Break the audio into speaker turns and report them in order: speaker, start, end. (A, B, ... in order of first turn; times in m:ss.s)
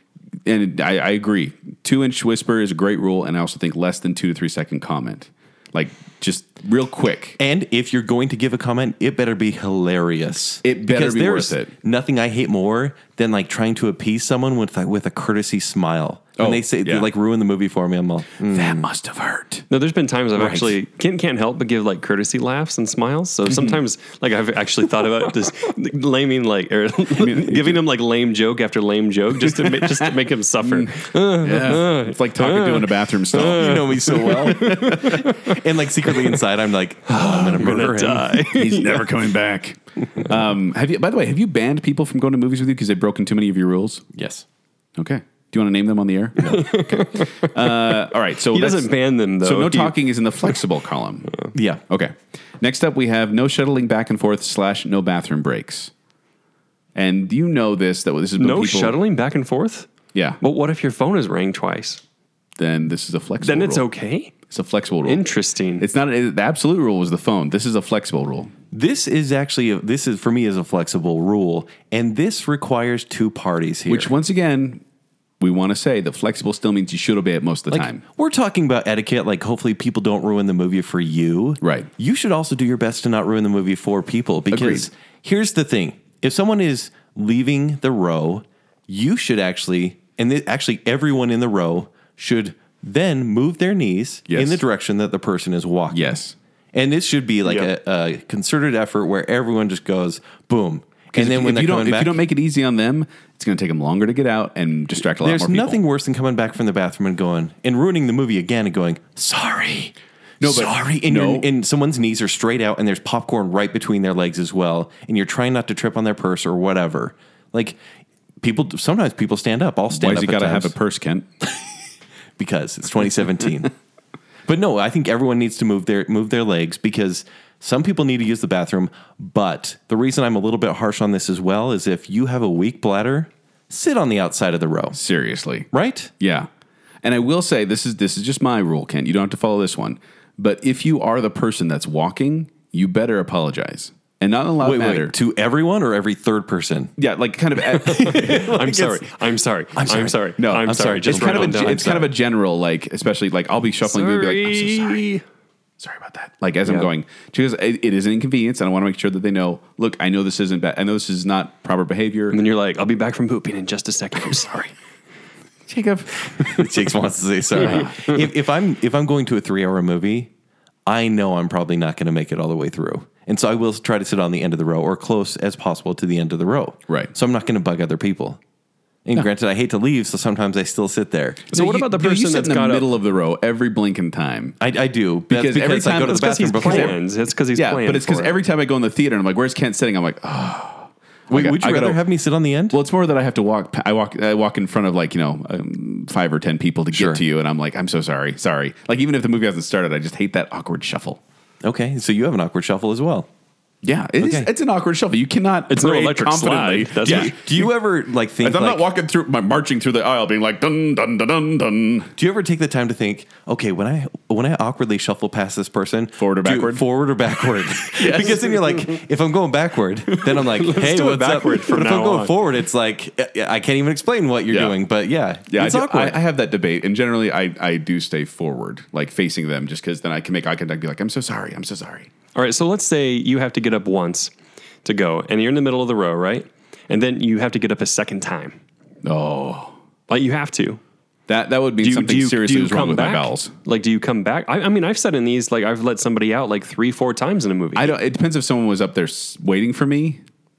0:00.4-0:07.4 A
0:07.4-0:18.8 B
0:10.6-0:11.7 A
0:16.4-0:17.1 A
0:18.4-0:19.6 A
0:19.7-0:36.4 C
0:20.4-0:20.7 B
0:27.1-0:27.8 A
0:29.4-0:35.3 A
0:33.4-0:38.5 B
0:37.1-0:39.2 C
0:38.5-0:44.0 A
0:44.1-0:44.4 B
0:45.0-0:48.9 A
0:46.4-0:50.0 C
0:49.4-0:55.9 A
0:51.5-0:51.8 B
0:56.9-0:59.0 A
0:58.4-0:59.9 C
1:00.1-1:00.4 A
1:00.4-1:02.0 C
1:02.6-1:03.8 A
1:03.4-1:04.3 C
1:04.5-1:05.2 A
1:05.0-1:05.8 C
1:05.8-1:08.5 A
1:08.7-1:14.1 B
1:13.9-1:14.8 A
1:15.4-1:18.0 A
1:17.7-1:36.0 B
1:21.6-1:21.9 A
1:24.5-1:24.9 A
1:34.3-1:34.6 A
1:35.9-1:36.3 A
1:36.7-1:42.2 B
1:41.1-1:45.8 A
1:45.2-1:57.8 B
1:50.4-1:51.5 A
1:58.4-2:00.7 B
1:59.9-2:01.2 A
2:02.4-2:03.7 B
2:04.5-2:15.0 B
2:14.9-2:15.7 A
2:15.7-2:16.1 B
2:16.2-2:16.5 A
2:17.0-2:25.1 A
2:24.6-2:26.9 B
2:27.0-2:28.5 A
2:27.8-2:29.0 B
2:27.8-2:31.9 C
2:29.7-2:32.1 B
2:30.4-2:35.0 A
2:33.8-2:35.2 C
2:35.8-2:42.4 A
2:42.3-2:44.7 C
2:45.7-2:46.7 A
2:46.3-2:50.3 B
2:47.6-2:47.9 A
2:50.8-2:58.4 B
2:59.0-3:01.4 B
3:01.5-3:02.9 C
3:01.5-3:04.6 A
3:04.6-3:07.0 B
3:05.3-3:07.0 A
3:06.5-3:08.4 C
3:07.5-3:12.0 A
3:11.3-3:12.8 B
3:12.7-3:21.2 A
3:16.9-3:17.2 B
3:21.6-3:23.3 B
3:23.8-3:27.7 A
3:24.2-3:24.5 B
3:25.7-3:27.3 C
3:27.0-3:28.8 B
3:28.4-3:32.1 A
3:32.2-3:46.2 B
3:36.2-3:36.8 A
3:37.9-3:38.6 A
3:40.3-3:42.3 C
3:44.5-3:44.8 A
3:45.5-3:52.1 A
3:52.3-3:54.3 C
3:54.8-3:58.6 C
3:59.0-3:59.7 A
4:00.1-4:00.8 C
4:01.3-4:03.5 A
4:01.8-4:07.9 C
4:07.7-4:10.2 A